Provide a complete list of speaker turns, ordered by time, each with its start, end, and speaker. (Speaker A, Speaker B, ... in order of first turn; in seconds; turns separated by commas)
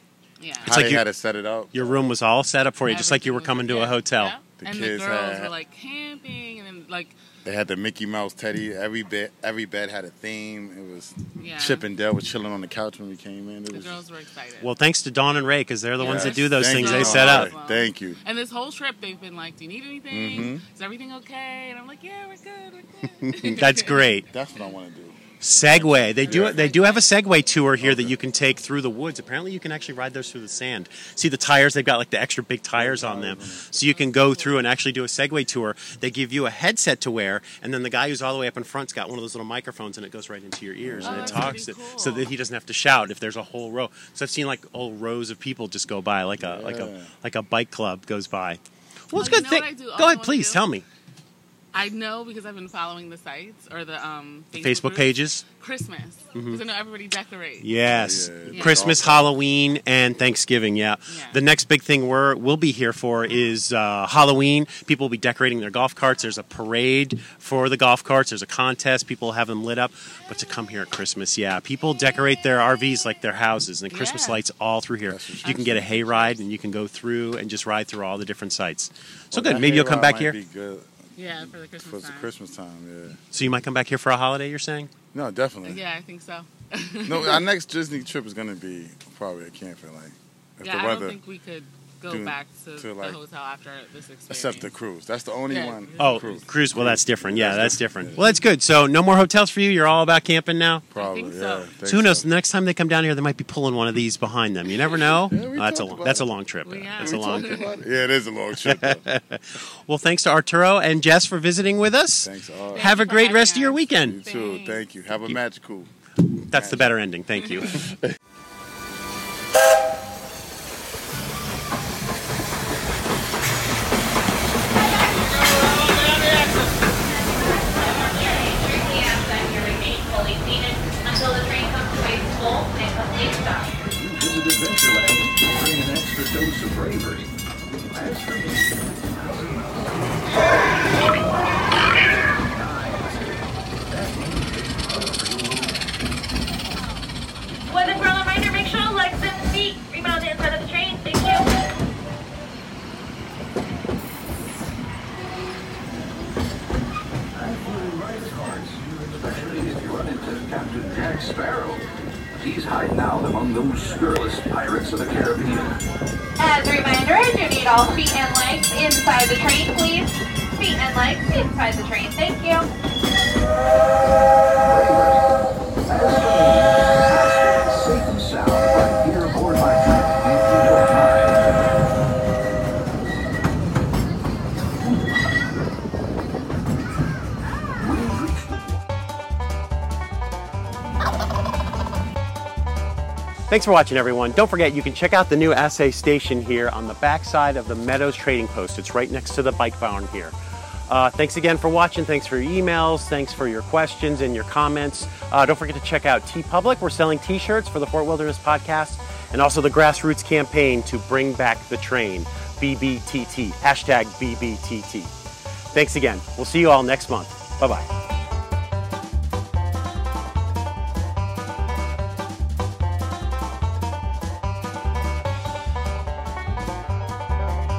Speaker A: 0.4-0.8, Speaker B: 0.6-2.0, Speaker C: 0.6-1.0, Speaker C: 1.7-4.3, Speaker A: 2.8-7.1, Speaker B: 4.6-5.5, Speaker B: 7.4-14.0, Speaker A: 11.4-11.8, Speaker A: 13.7-14.7, Speaker C: 14.6-17.5, Speaker B: 16.0-18.2, Speaker A: 16.0-24.7, Speaker B: 20.1-20.6, Speaker C: 23.2-24.2, Speaker B: 24.3-26.7, Speaker C: 25.4-50.8, Speaker A: 26.2-27.1, Speaker B: 27.8-28.2, Speaker B: 32.8-33.6, Speaker A: 33.8-34.6, Speaker B: 40.8-41.6, Speaker A: 41.0-42.3, Speaker B: 46.4-47.1, Speaker A: 49.1-50.6, Speaker A: 51.7-57.7, Speaker C: 54.6-55.4, Speaker C: 56.3-56.6, Speaker C: 57.6-80.3, Speaker B: 57.9-59.3, Speaker A: 58.5-58.8, Speaker A: 61.1-61.4, Speaker A: 73.9-74.4, Speaker B: 75.1-76.4, Speaker B: 79.3-80.9, Speaker A: 81.2-82.3, Speaker B: 81.4-83.2, Speaker C: 83.3-84.9, Speaker B: 85.1-85.8, Speaker A: 85.6-87.4, Speaker B: 87.0-91.2, Speaker A: 90.6-94.7, Speaker B: 92.1-93.2, Speaker B: 94.3-98.2, Speaker A: 95.5-96.4, Speaker C: 96.0-100.8, Speaker A: 100.9-101.7, Speaker B: 100.9-102.3, Speaker C: 101.8-107.5, Speaker B: 105.3-106.3, Speaker A: 106.6-107.7, Speaker B: 107.0-109.0, Speaker C: 108.7-114.1, Speaker B: 112.2-112.9, Speaker A: 112.7-114.8, Speaker B: 114.0-115.9, Speaker C: 116.4-117.8, Speaker B: 116.5-116.9, Speaker D: 127.1-133.9, Speaker E: 133.8-137.3, Speaker E: 137.9-141.3, Speaker E: 142.5-143.4, Speaker E: 143.9-145.7, Speaker D: 147.7-151.5, Speaker E: 157.4-165.8, Speaker D: 166.4-172.7, Speaker E: 174.6-175.2, Speaker E: 175.9-181.4, Speaker E: 187.8-188.8, Speaker C: 193.5-200.3, Speaker C: 200.9-215.1, Speaker C: 215.7-217.8